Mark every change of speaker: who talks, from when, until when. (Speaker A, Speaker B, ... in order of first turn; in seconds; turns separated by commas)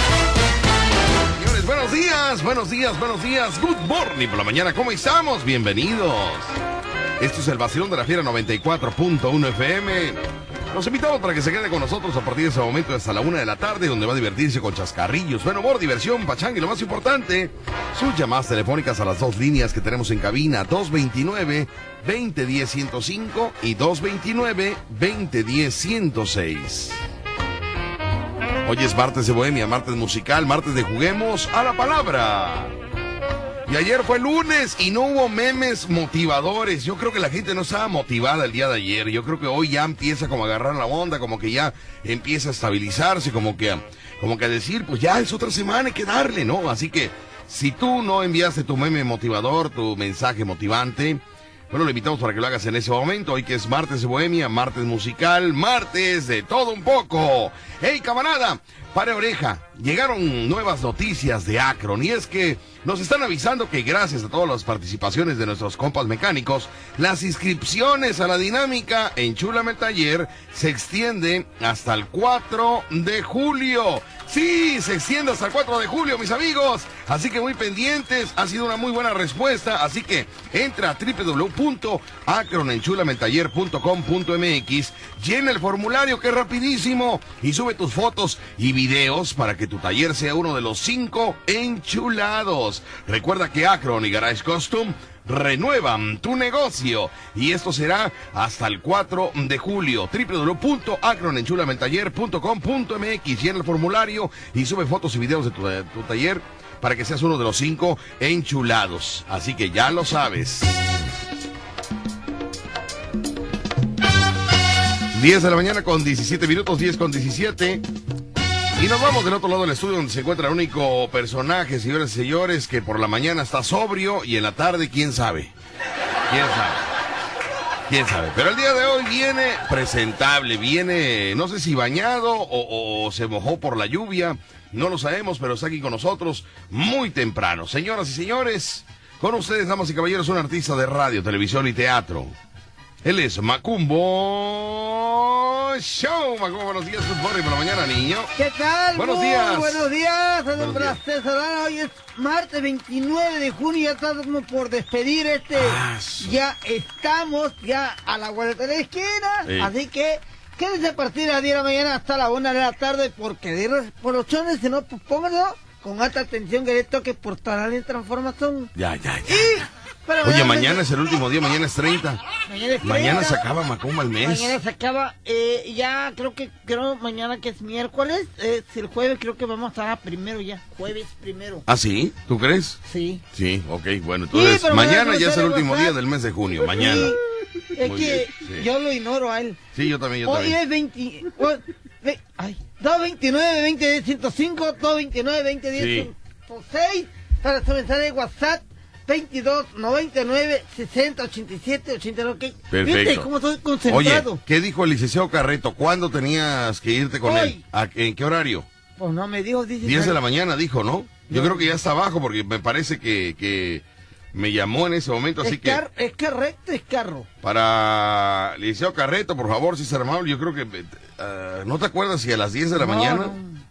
Speaker A: 1.3-6.5, Speaker A: 7.2-27.0, Speaker A: 28.6-32.7, Speaker A: 33.6-110.8, Speaker A: 115.1-117.8, Speaker A: 118.8-125.5, Speaker A: 126.3-126.9, Speaker A: 127.9-142.3, Speaker A: 143.0-148.3, Speaker B: 148.3-168.7, Speaker A: 148.9-149.8, Speaker A: 150.5-151.0, Speaker A: 155.5-156.3, Speaker A: 159.4-159.7, Speaker A: 168.7-169.7, Speaker B: 169.3-170.8, Speaker A: 170.2-172.2, Speaker B: 172.4-173.4, Speaker A: 172.8-174.6, Speaker B: 174.2-181.6, Speaker A: 181.7-182.8, Speaker B: 182.8-183.2, Speaker A: 183.3-187.2, Speaker B: 184.3-185.9, Speaker B: 186.6-187.2, Speaker B: 187.7-189.6, Speaker A: 187.8-188.7, Speaker A: 189.7-190.6, Speaker B: 190.2-204.4, Speaker A: 195.7-196.1, Speaker A: 202.7-203.3, Speaker A: 203.9-208.7, Speaker B: 207.2-207.6, Speaker B: 209.0-210.2, Speaker A: 209.8-215.8, Speaker B: 211.3-211.7, Speaker B: 215.4-217.3, Speaker A: 217.4-223.3, Speaker B: 222.8-223.6